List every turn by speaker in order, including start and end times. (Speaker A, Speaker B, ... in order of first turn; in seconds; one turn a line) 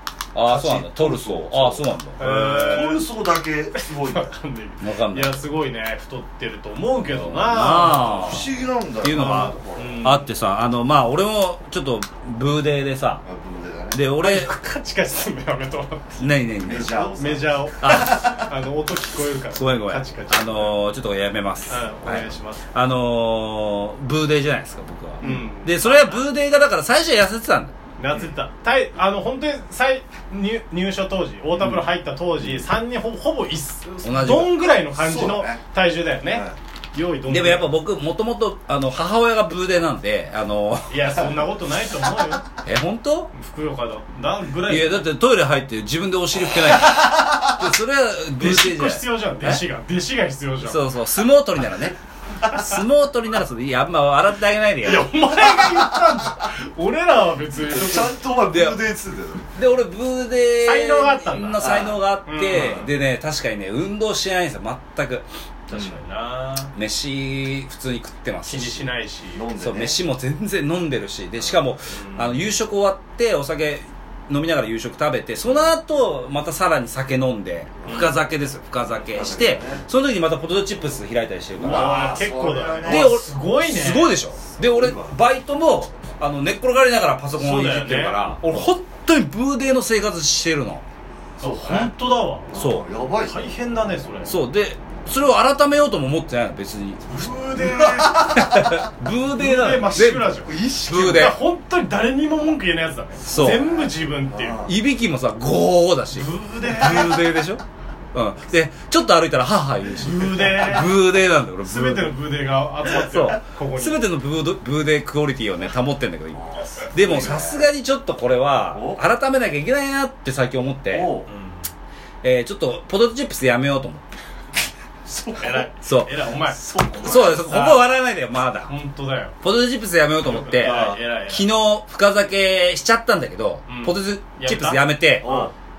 Speaker A: 0.3-2.9
Speaker B: 0.4-4.3
Speaker C: 2.2-3.1
Speaker C: 3.7-8.5
Speaker A: 4.8-5.4
Speaker A: 7.0-13.2
Speaker B: 8.0-10.1
Speaker C: 9.8-10.3
Speaker B: 13.2-14.0
Speaker A: 13.9-14.5
Speaker C: 14.1-16.2
Speaker A: 16.2-17.0
Speaker B: 16.6-18.5
Speaker C: 16.8-20.8
Speaker A: 17.8-18.3
Speaker A: 19.5-27.7
Speaker C: 21.7-22.6
Speaker B: 25.2-25.5
Speaker C: 25.2-26.3
Speaker C: 28.0-37.7
Speaker A: 34.0-34.6
Speaker B: 34.9-35.6
Speaker B: 36.3-36.5
Speaker A: 37.3-41.3
Speaker C: 40.9-42.5
Speaker A: 42.6-43.3
Speaker C: 43.3-45.1
Speaker A: 44.6-49.6
Speaker C: 48.4-50.8
Speaker A: 50.6-55.1
Speaker C: 54.8-58.2
Speaker B: 55.1-56.3
Speaker B: 57.5-59.5
Speaker A: 58.5-58.8
Speaker A: 59.5-65.2
Speaker C: 60.6-62.9
Speaker B: 61.6-62.0
Speaker B: 62.5-62.8
Speaker C: 65.7-66.7
Speaker B: 65.7-66.0
Speaker A: 66.7-68.9
Speaker C: 68.5-69.5
Speaker B: 69.3-70.0
Speaker A: 69.5-90.8
Speaker C: 71.9-72.4
Speaker B: 75.4-75.7
Speaker B: 77.8-78.1
Speaker C: 77.8-78.1
Speaker B: 79.0-79.8
Speaker B: 81.6-83.2
Speaker C: 81.6-84.2
Speaker B: 84.6-85.2
Speaker C: 87.3-88.2
Speaker B: 91.4-91.9
Speaker C: 91.4-92.5
Speaker B: 92.5-93.4
Speaker A: 92.5-92.8
Speaker C: 93.2-94.3
Speaker A: 94.2-97.0
Speaker C: 97.0-98.3
Speaker B: 97.2-98.8
Speaker A: 98.1-101.4
Speaker C: 99.3-104.7
Speaker A: 103.2-103.7
Speaker B: 103.3-104.8
Speaker A: 104.6-107.6
Speaker C: 106.1-107.3
Speaker A: 108.1-112.2
Speaker C: 110.0-111.0
Speaker C: 111.6-114.0
Speaker A: 112.9-121.2
Speaker B: 116.5-117.6
Speaker C: 117.0-117.4
Speaker B: 118.7-119.0
Speaker B: 120.9-121.3
Speaker C: 121.3-121.7
Speaker A: 122.2-124.0
Speaker B: 125.0-125.7
Speaker C: 125.4-128.0
Speaker A: 125.8-126.2
Speaker B: 126.6-127.4
Speaker A: 127.0-128.7
Speaker C: 128.7-129.3
Speaker A: 129.4-135.3
Speaker C: 130.2-131.5
Speaker B: 130.6-131.0
Speaker C: 133.7-135.5
Speaker B: 135.2-135.5